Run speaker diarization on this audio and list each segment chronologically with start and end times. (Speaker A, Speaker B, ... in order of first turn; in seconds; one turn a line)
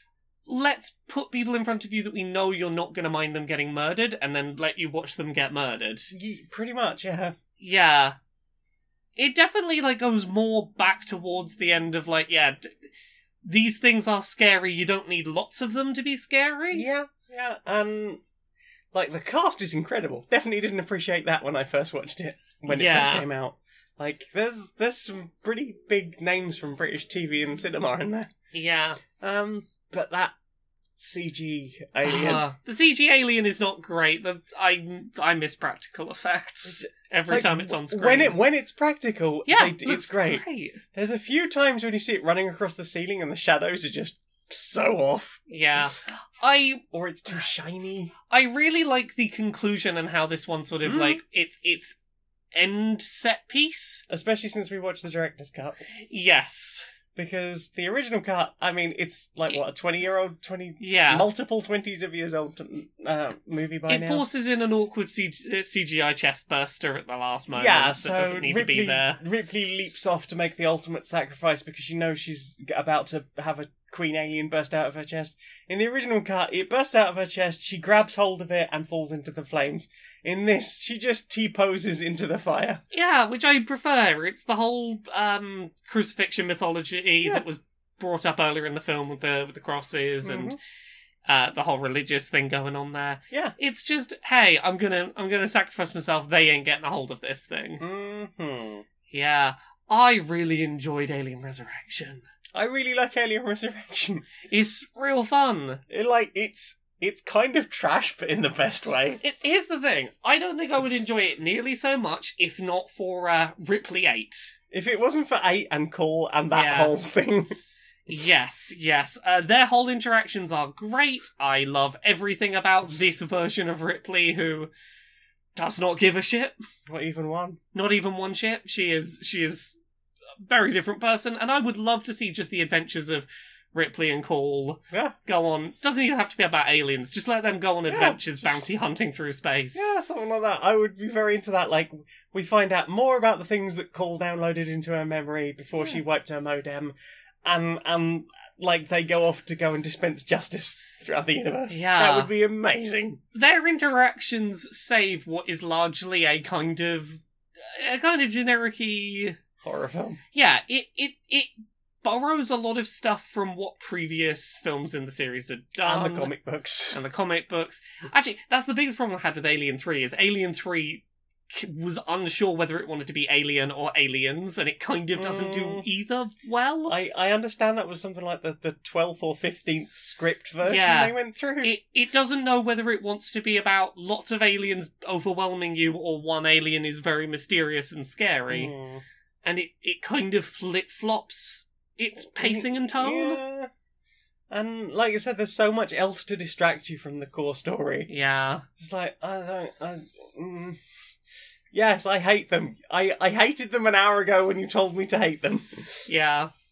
Speaker A: 0.5-6.1
Speaker B: 6.1-7.3
Speaker A: 7.6-8.2
Speaker A: 9.2-12.8
Speaker A: 13.4-16.9
Speaker B: 16.7-18.2
Speaker B: 18.9-28.3
Speaker A: 22.7-23.3
Speaker A: 28.5-29.0
Speaker B: 29.2-30.3
Speaker B: 31.0-32.5
Speaker A: 32.0-38.4
Speaker B: 36.6-45.4
Speaker A: 39.5-40.8
Speaker A: 45.5-46.8
Speaker B: 46.9-48.1
Speaker A: 48.3-52.0
Speaker B: 50.8-51.2
Speaker A: 52.5-54.0
Speaker B: 54.1-55.8
Speaker A: 56.0-56.9
Speaker B: 57.1-64.2
Speaker A: 60.8-61.3
Speaker A: 63.9-69.2
Speaker B: 67.5-82.8
Speaker A: 82.9-90.6
Speaker B: 90.2-90.6
Speaker A: 91.3-97.8
Speaker B: 97.8-98.8
Speaker A: 99.1-102.3
Speaker B: 102.5-104.3
Speaker A: 104.5-105.8
Speaker B: 105.9-109.2
Speaker A: 109.2-114.5
Speaker B: 114.7-117.6
Speaker A: 116.5-116.9
Speaker A: 118.1-124.7
Speaker A: 125.5-126.6
Speaker B: 126.9-127.6
Speaker A: 127.7-129.8
Speaker A: 130.4-139.9
Speaker B: 137.9-138.7
Speaker B: 139.7-153.2
Speaker A: 151.7-152.3
Speaker A: 153.3-159.4
Speaker B: 159.6-160.2
Speaker A: 160.3-166.3
Speaker B: 165.8-167.0
Speaker A: 166.9-177.0
Speaker B: 175.2-175.8
Speaker B: 176.9-181.7
Speaker A: 180.6-188.7
Speaker B: 188.5-189.0
Speaker A: 189.4-193.4
Speaker B: 192.3-193.7
Speaker B: 194.5-198.1
Speaker A: 198.1-198.7
Speaker B: 198.8-200.8
Speaker B: 201.7-206.1
Speaker A: 206.1-206.5